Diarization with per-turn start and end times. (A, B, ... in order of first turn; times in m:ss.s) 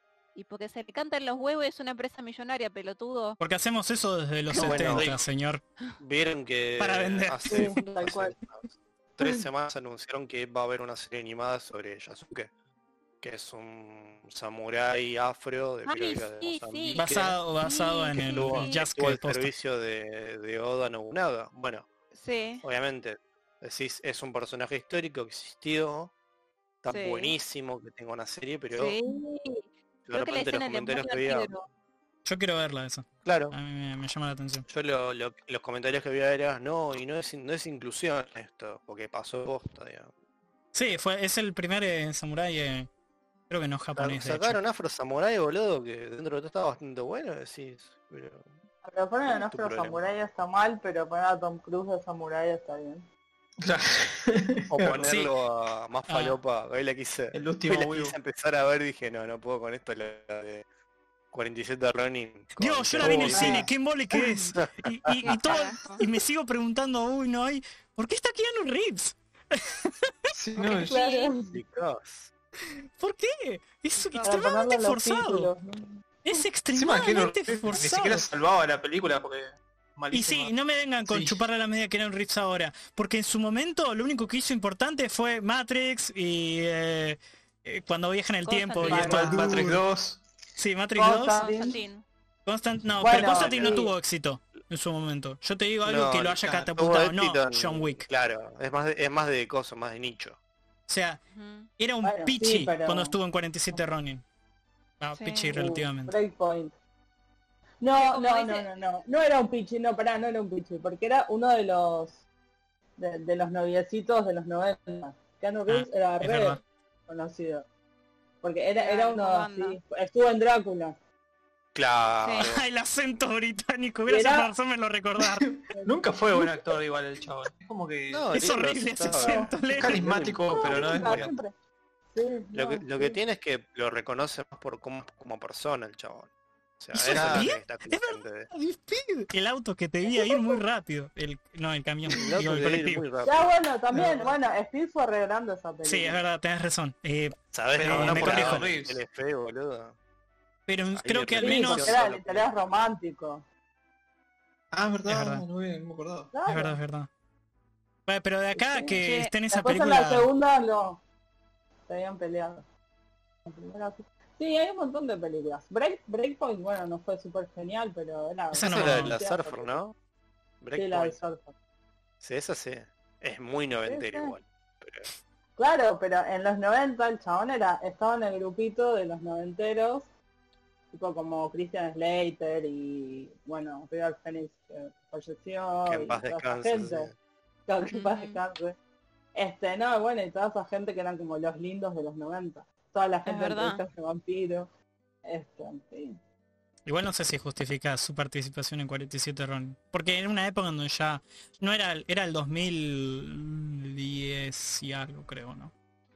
0:00.3-0:03.4 A
0:03.4-0:05.6 B
0:04.6-0:05.1 C
0:04.6-0:05.2 D
0:06.0-0:08.6 C
0:06.8-0:07.7 B
0:07.4-0:08.3 E
0:09.2-0:12.5 C
0:13.2-0:17.4 C
0:15.8-0:18.8 A
0:16.9-0:19.5 B
0:18.1-0:21.9 C
0:22.1-0:22.6 A
0:22.6-0:26.1 C
0:26.8-0:29.0 C
0:26.9-0:27.3 A
0:28.7-0:31.6 A
0:30.1-0:31.5 C
0:32.2-0:34.6 B
0:33.2-0:33.6 C
0:34.7-0:40.1 C
0:40.7-0:42.9 B
0:43.5-0:44.6 B
0:44.0-0:48.5 C
0:48.8-0:53.1 E
0:49.3-0:50.0 C
0:53.6-0:55.1 D
0:54.7-1:00.6 C
0:55.0-0:55.3 B
0:56.1-0:56.4 B
0:57.3-0:58.2 D
1:01.3-1:03.6 C
1:02.6-1:10.1 B
1:03.0-1:03.6 D
1:03.3-1:03.6 E
1:04.5-1:05.4 C
1:05.5-1:06.0 A
1:10.3-1:10.9 D
1:10.6-1:11.3 A
1:10.8-1:11.6 E
1:11.5-1:12.3 C
1:13.0-1:15.5 B
1:14.0-1:14.5 A
1:14.2-1:16.4 E
1:16.2-1:18.2 B
1:16.7-1:20.5 D
1:20.1-1:29.8 B
1:21.0-1:21.4 D
1:28.4-1:29.4 A
1:28.8-1:29.8 E
1:28.8-1:30.2 D
1:30.6-1:31.4 B
1:31.0-1:31.8 E
1:31.3-1:32.0 A
1:32.4-1:38.0 B
1:33.0-1:33.9 E
1:33.4-1:33.6 C
1:35.8-1:40.4 C
1:40.9-1:41.2 B
1:41.3-1:41.7 A
1:41.8-1:44.2 B
1:42.0-1:43.2 E
1:45.0-1:46.2 B
1:45.1-1:45.5 A
1:45.5-1:46.7 E
1:47.8-1:52.2 E
1:48.0-1:48.7 A
1:53.0-1:57.6 E
1:55.7-1:56.6 B
1:58.4-2:01.0 E
1:58.7-1:59.8 A
2:01.7-2:02.6 C
2:02.2-2:02.5 A
2:02.4-2:05.5 B
2:04.1-2:04.5 E
2:05.2-2:08.4 D
2:05.7-2:06.6 E
2:08.1-2:11.4 C
2:08.3-2:10.0 B
2:09.2-2:09.6 E
2:09.6-2:11.3 D
2:10.5-2:11.5 E
2:12.1-2:13.2 E
2:12.5-2:18.5 C
2:16.9-2:23.0 B
2:17.1-2:17.5 D
2:20.1-2:20.6 E
2:22.1-2:24.3 C
2:23.2-2:26.2 E
2:25.8-2:28.7 B
2:27.5-2:29.9 C
2:27.7-2:29.0 D
2:30.7-2:32.0 B
2:31.0-2:32.9 C
2:31.4-2:33.4 E
2:34.7-2:36.3 D
2:35.0-2:35.4 B
2:36.3-2:36.8 E
2:36.4-2:37.1 B
2:38.1-2:40.3 B
2:38.5-2:39.0 E
2:39.0-2:39.3 A
2:39.5-2:41.0 E
2:41.9-2:42.6 E
2:43.4-2:49.8 E
2:48.5-2:49.2 B
2:48.6-2:49.9 C
2:50.6-2:51.2 C
2:50.7-2:51.5 E
2:52.2-2:55.1 C
2:53.8-2:54.4 E
2:55.6-3:00.1 E
3:00.9-3:07.1 E
3:05.9-3:07.2 C
3:07.7-3:08.8 E
3:07.9-3:08.4 A
3:09.3-3:14.7 E
3:13.2-3:13.8 A
3:15.2-3:16.2 E
3:16.9-3:25.7 B